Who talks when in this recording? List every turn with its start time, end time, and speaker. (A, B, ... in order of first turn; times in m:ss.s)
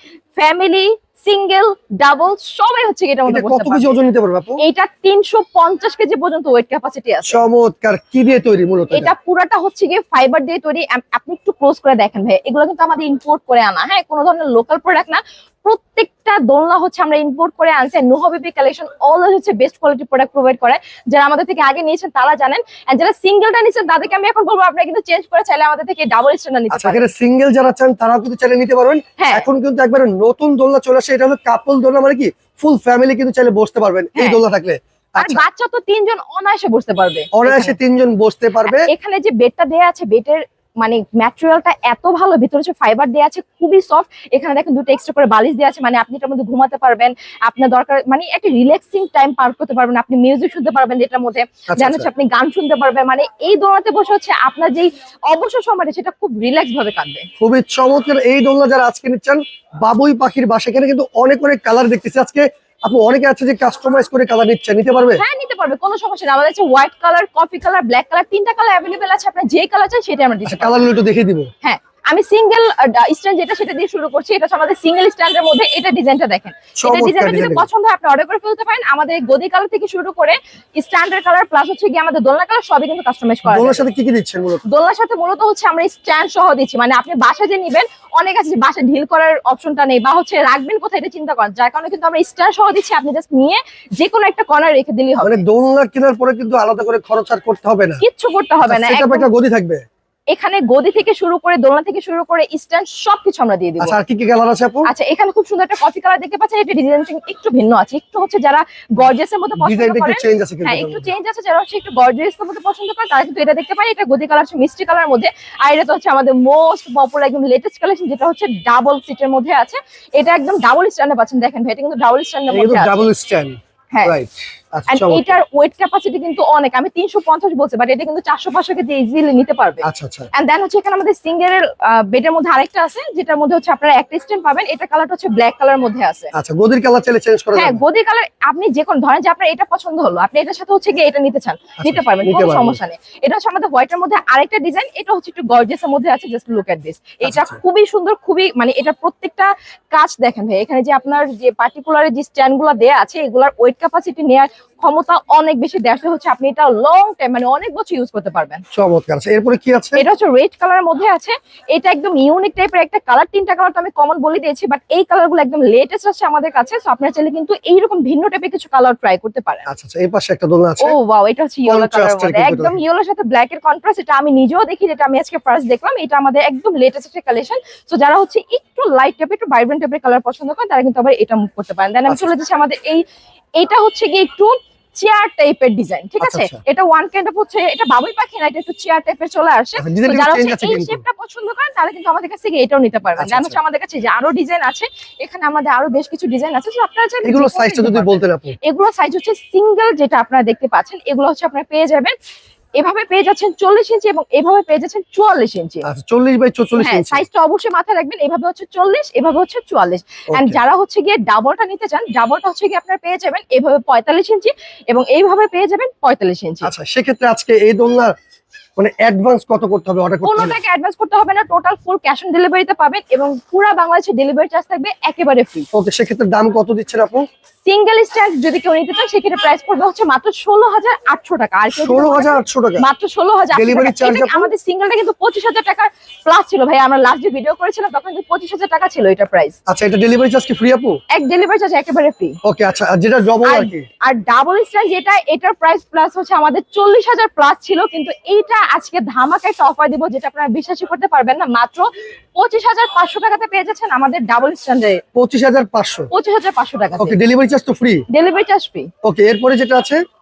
0:00.4-0:03.9 A
0:03.3-0:04.6 B
0:04.6-0:07.4 A
0:07.3-0:09.1 B
0:08.9-0:27.1 A
0:26.7-0:35.4 B
0:29.2-0:29.5 A
0:34.2-0:34.4 A
0:35.2-0:37.8 A
0:37.3-0:38.9 B
0:38.6-0:57.3 A
0:51.7-0:52.1 B
0:57.4-1:05.2 B
1:05.2-1:10.9 A
1:10.4-1:11.5 B
1:11.6-1:23.8 A
1:16.8-1:17.7 B
1:23.5-1:24.6 B
1:24.7-1:35.4 A
1:35.2-1:38.0 B
1:38.0-1:39.3 A
1:38.6-1:39.8 B
1:40.3-1:44.0 A
1:43.8-1:44.9 B
1:44.9-2:03.1 A
1:49.6-1:51.1 B
2:02.5-2:05.4 B
2:04.9-2:09.8 A
2:09.8-2:10.3 B
2:10.3-2:16.3 A
2:16.3-2:17.8 B
2:17.6-2:38.6 A
2:21.8-2:22.8 B
2:27.2-2:27.6 B
2:38.7-2:40.0 B
2:40.0-2:49.7 A
2:49.7-2:50.9 B
2:50.8-3:03.0 A
2:51.7-2:52.8 B
3:03.6-3:22.2 A
3:06.2-3:06.6 B
3:09.8-3:11.0 B
3:13.2-3:13.6 B
3:17.2-3:18.6 B
3:22.8-3:25.8 A
3:25.8-3:27.3 B
3:26.8-3:36.7 A
3:30.3-3:30.6 B
3:36.6-3:38.1 B
3:38.8-3:40.6 B
3:40.2-3:45.7 A
3:45.7-3:47.3 B
3:47.6-3:59.6 A
3:51.7-3:52.9 B
3:53.5-3:54.5 B
3:59.7-4:01.0 B
4:01.1-4:02.4 A
4:02.4-4:03.9 B
4:03.4-4:15.0 A
4:15.2-4:16.1 B
4:16.1-4:17.2 A
4:17.0-4:18.0 B
4:18.1-4:18.9 A
4:19.0-4:20.0 B